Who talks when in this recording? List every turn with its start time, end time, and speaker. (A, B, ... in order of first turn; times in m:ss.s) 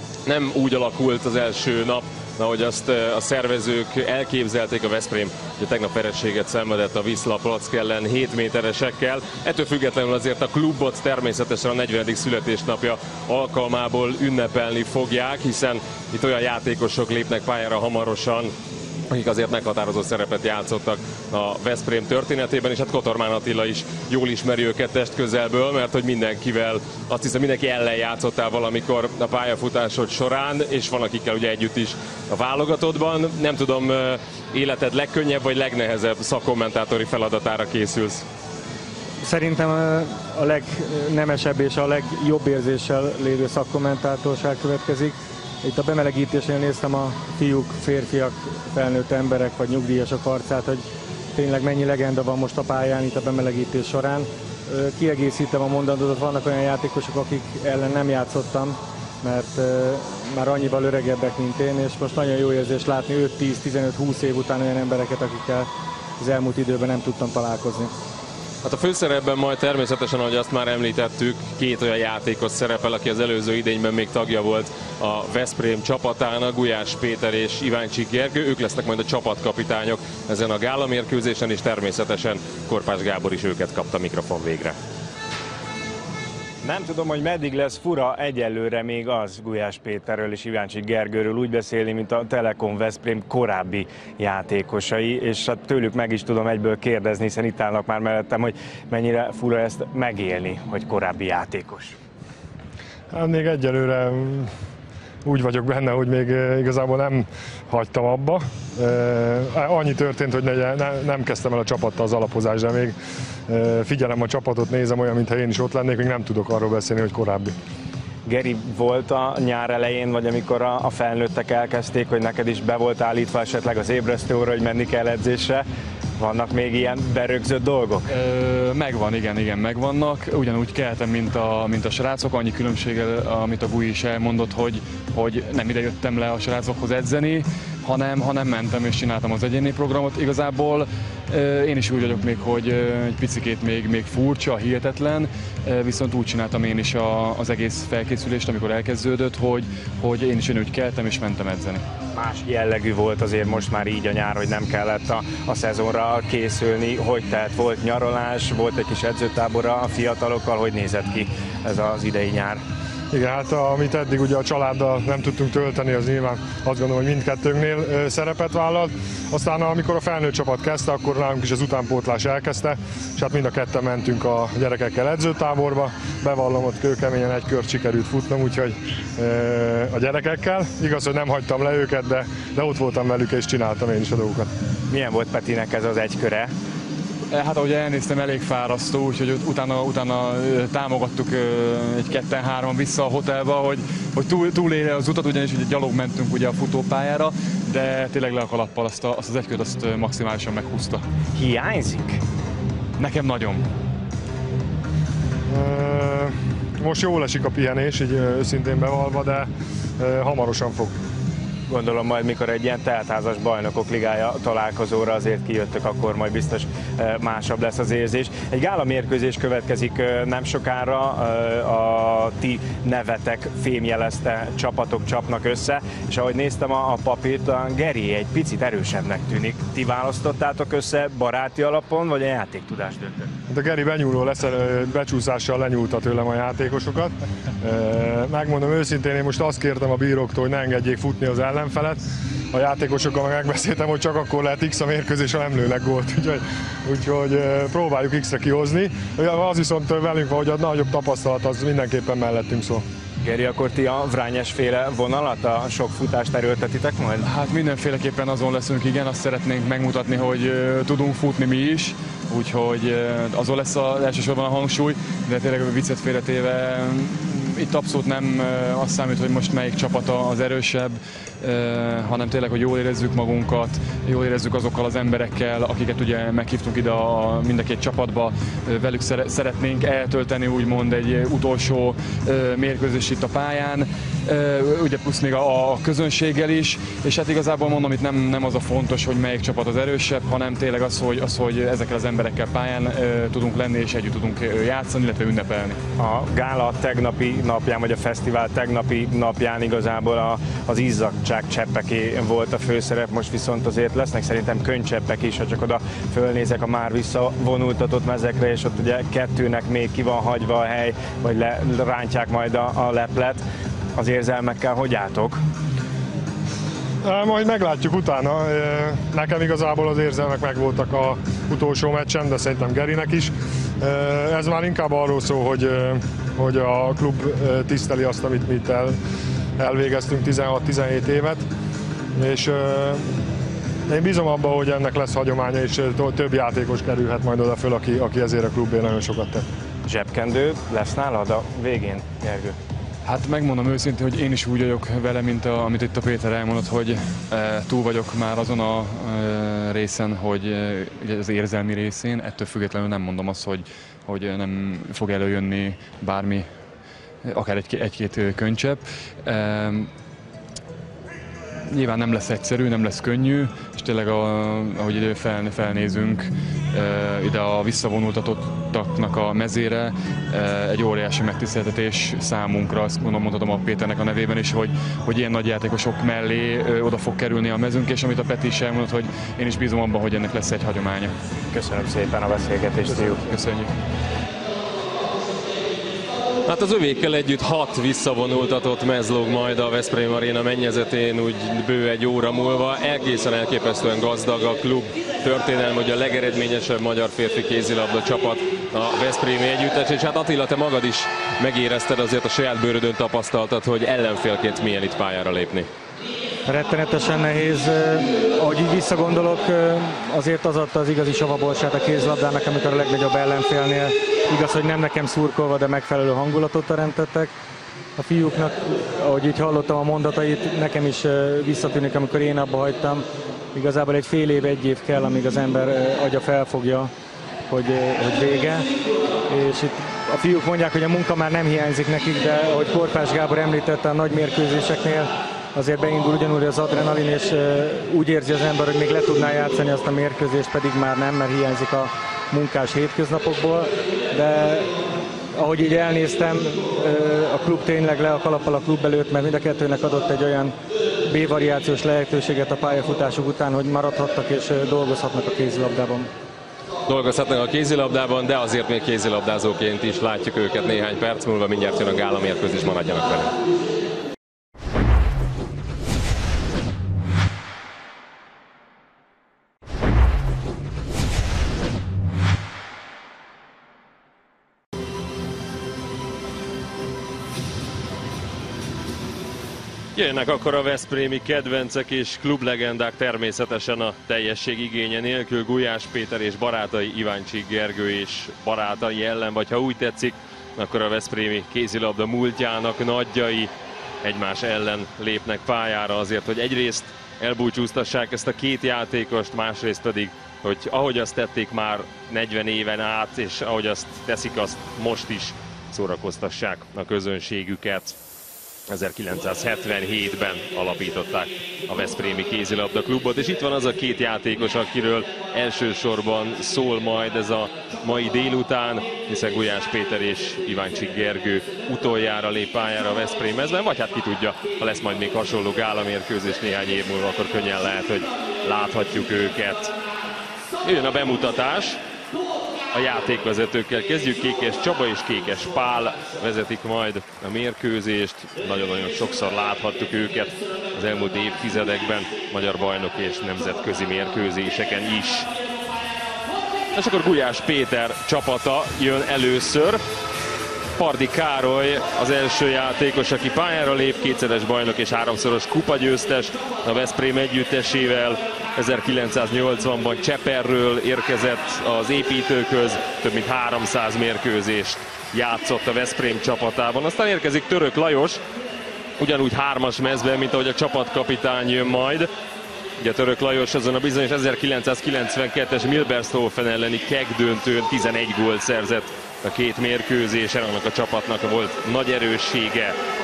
0:00.3-0:18.5 A
0:19.1-0:38.3 A
0:39.2-1:05.7 B
1:06.2-1:07.9 B
1:08.6-1:24.8 A
1:26.6-1:42.0 C
1:43.1-1:44.5 D
1:45.2-1:53.0 D
1:53.5-1:57.6 D
1:58.3-2:05.7 C
2:06.2-2:08.1 C
2:08.1-2:31.8 E
2:32.1-2:42.6 C
2:43.1-3:04.5 D
3:04.9-3:06.5 C
3:07.3-3:21.0 E
3:21.4-3:22.2 C
3:23.0-3:23.7 E
3:25.5-3:31.0 D
3:31.7-3:53.3 C
3:53.5-4:02.0 D
4:02.5-4:12.8 D
4:13.2-4:17.3 C
4:17.2-4:55.8 E
4:56.0-5:13.4 C
5:14.0-5:15.4 C
5:17.0-5:29.0 D
5:29.6-5:31.4 D
5:32.2-5:33.1 D
5:33.9-5:39.4 D
5:39.8-5:42.6 C
5:43.0-5:56.5 E
5:57.2-5:59.9 E
6:01.6-6:21.2 E
6:21.5-6:23.2 C
6:22.9-6:23.7 E
6:26.5-6:45.7 A
6:46.5-6:57.3 B
6:58.0-7:06.9 B
7:07.5-7:08.7 B
7:09.3-7:24.7 B
7:25.3-7:36.1 B
7:36.9-7:43.3 A
7:59.9-8:13.5 A
8:14.0-8:28.0 A
8:28.7-8:49.7 A
8:50.6-8:51.8 A
8:52.7-9:05.3 A
9:06.7-9:09.8 A
9:10.8-9:28.2 A
9:29.0-9:32.1 A
9:32.8-9:42.8 A